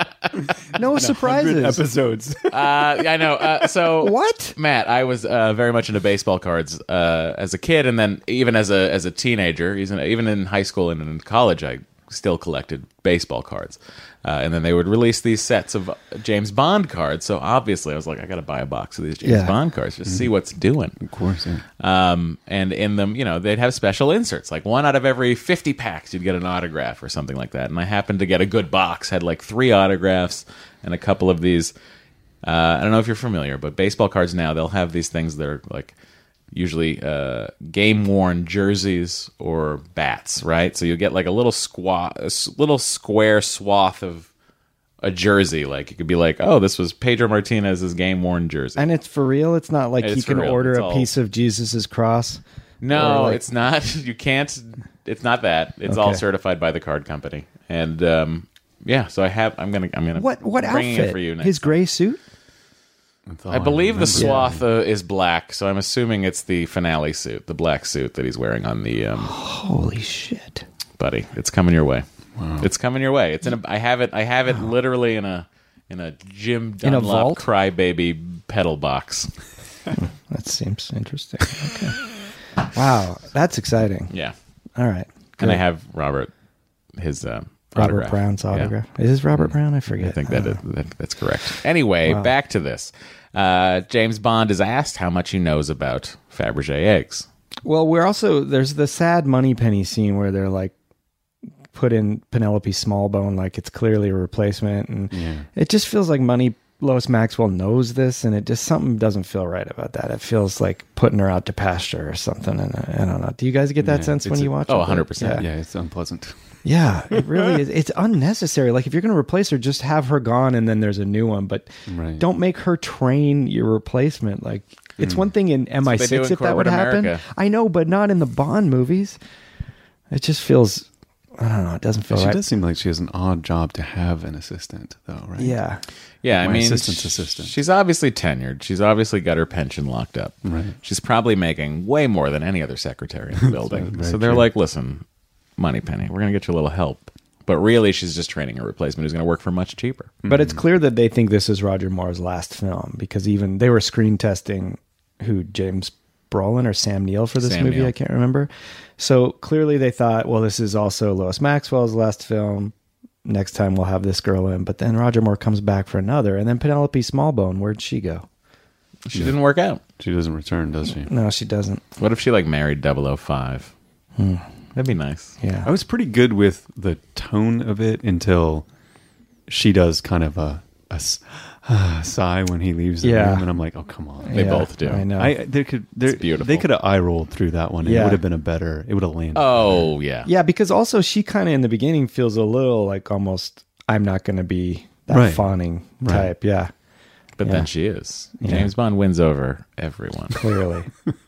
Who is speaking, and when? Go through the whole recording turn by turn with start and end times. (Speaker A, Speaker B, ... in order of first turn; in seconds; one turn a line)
Speaker A: 0.8-1.8
Speaker B: 0.9-3.0
Speaker C: 2.5-21.0
Speaker A: 4.0-4.5
Speaker A: 19.2-19.5
Speaker B: 20.1-20.3
Speaker B: 21.0-21.6
Speaker C: 21.8-31.7
Speaker C: 32.4-35.9
Speaker C: 36.5-44.3
Speaker C: 45.0-48.9
Speaker A: 48.8-52.4
Speaker C: 50.0-51.1
Speaker C: 52.8-61.8
Speaker A: 52.9-53.4
Speaker A: 55.9-56.2
Speaker A: 60.2-62.2
Speaker B: 63.3-64.6
Speaker C: 63.5-69.3
Speaker A: 64.1-64.5
Speaker A: 69.2-70.6
Speaker C: 71.0-72.0
Speaker B: 72.4-72.7
Speaker C: 72.6-79.3
Speaker A: 76.8-77.5
Speaker A: 80.0-82.0
Speaker A: 82.7-84.1
Speaker A: 84.8-85.6
Speaker C: 85.4-86.3
Speaker C: 87.0-88.7
Speaker A: 87.8-90.6
Speaker C: 89.9-97.3
Speaker A: 97.7-100.7
Speaker A: 101.7-115.4
Speaker B: 105.1-105.5
Speaker B: 113.8-114.6
Speaker C: 114.7-115.5
Speaker B: 115.3-116.4
Speaker A: 116.7-129.2
Speaker B: 117.1-117.4
Speaker B: 121.9-122.2
Speaker B: 125.0-125.3
Speaker C: 125.8-127.2
Speaker A: 130.1-130.9
Speaker A: 131.4-132.4
Speaker B: 132.1-135.6
Speaker A: 135.4-135.8
Speaker C: 136.2-145.0
Speaker B: 136.3-137.5
Speaker B: 140.4-140.8
Speaker B: 143.4-144.5
Speaker C: 145.6-150.1
Speaker B: 150.2-150.6
Speaker A: 150.3-162.7
Speaker C: 157.4-157.9
Speaker A: 163.2-168.3
Speaker C: 169.1-169.8
Speaker B: 170.0-171.1
Speaker A: 171.1-171.8
Speaker C: 172.0-173.7
Speaker A: 174.2-174.5
Speaker C: 174.8-175.4
Speaker A: 175.4-175.7
Speaker B: 175.6-178.7
Speaker B: 179.5-184.6
Speaker A: 183.0-183.5
Speaker A: 184.2-185.3
Speaker C: 184.3-185.1
Speaker B: 185.2-189.9
Speaker C: 186.1-186.7
Speaker A: 187.8-188.2
Speaker C: 189.3-190.3
Speaker A: 190.2-196.7
Speaker B: 195.1-195.5
Speaker B: 196.0-196.3
Speaker C: 197.4-200.4
Speaker A: 198.4-198.7
Speaker A: 200.3-200.9